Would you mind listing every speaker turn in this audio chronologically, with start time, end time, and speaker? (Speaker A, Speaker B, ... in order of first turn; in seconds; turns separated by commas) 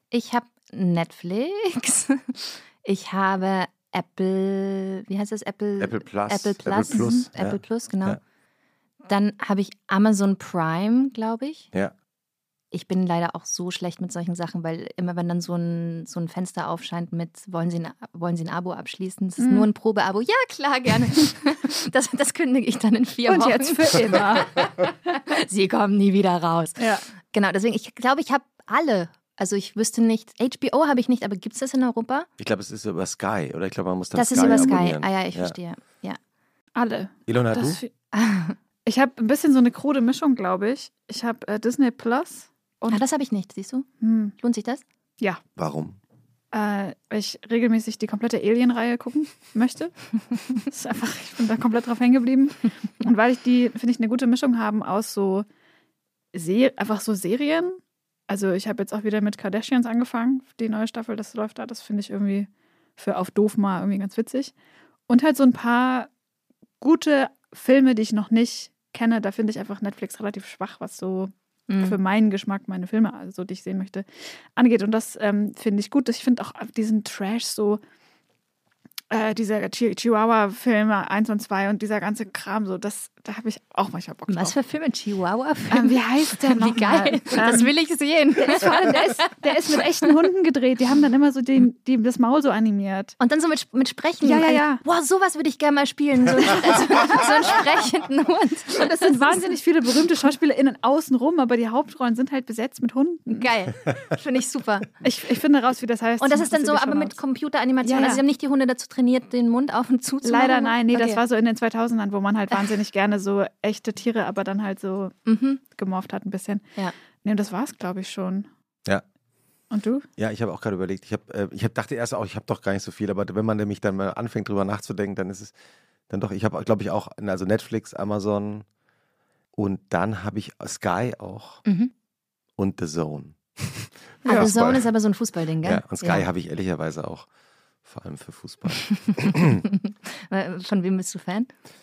Speaker A: 0.1-8.2, Speaker B: 5.8-8.2, Speaker C: 6.9-7.2, Speaker A: 9.0-11.7, Speaker A: 12.7-32.3, Speaker C: 19.4-19.7, Speaker C: 23.3-24.5, Speaker C: 26.8-27.1, Speaker B: 32.4-35.5, Speaker A: 34.1-36.2, Speaker C: 34.4-34.8, Speaker C: 36.8-37.9, Speaker B: 37.3-37.8, Speaker A: 38.1-38.6, Speaker C: 38.9-43.0, Speaker A: 42.9-43.9, Speaker C: 44.0-44.3, Speaker A: 44.4-44.8, Speaker B: 45.6-46.0, Speaker C: 46.5-55.5, Speaker C: 56.3-57.8, Speaker C: 58.3-64.5, Speaker C: 65.1-66.1, Speaker C: 66.8-77.8, Speaker A: 71.7-72.0, Speaker C: 79.1-84.6, Speaker A: 84.3-90.1, Speaker C: 85.7-87.7, Speaker C: 88.4-93.2, Speaker A: 93.2-99.5, Speaker C: 94.2-94.8, Speaker C: 98.8-103.5, Speaker A: 103.3-104.9, Speaker C: 105.0-107.2, Speaker A: 106.2-111.2, Speaker C: 107.8-108.2, Speaker C: 110.2-115.2, Speaker A: 115.3-115.6, Speaker C: 115.7-116.7, Speaker C: 117.2-118.5, Speaker C: 119.7-120.1, Speaker B: 120.2-125.5, Speaker B: 126.1-128.7, Speaker B: 129.6-131.6, Speaker A: 131.7-131.9, Speaker B: 132.6-134.9, Speaker A: 134.2-136.3, Speaker C: 134.3-134.5, Speaker B: 135.6-137.3, Speaker B: 137.8-139.6, Speaker A: 139.0-141.5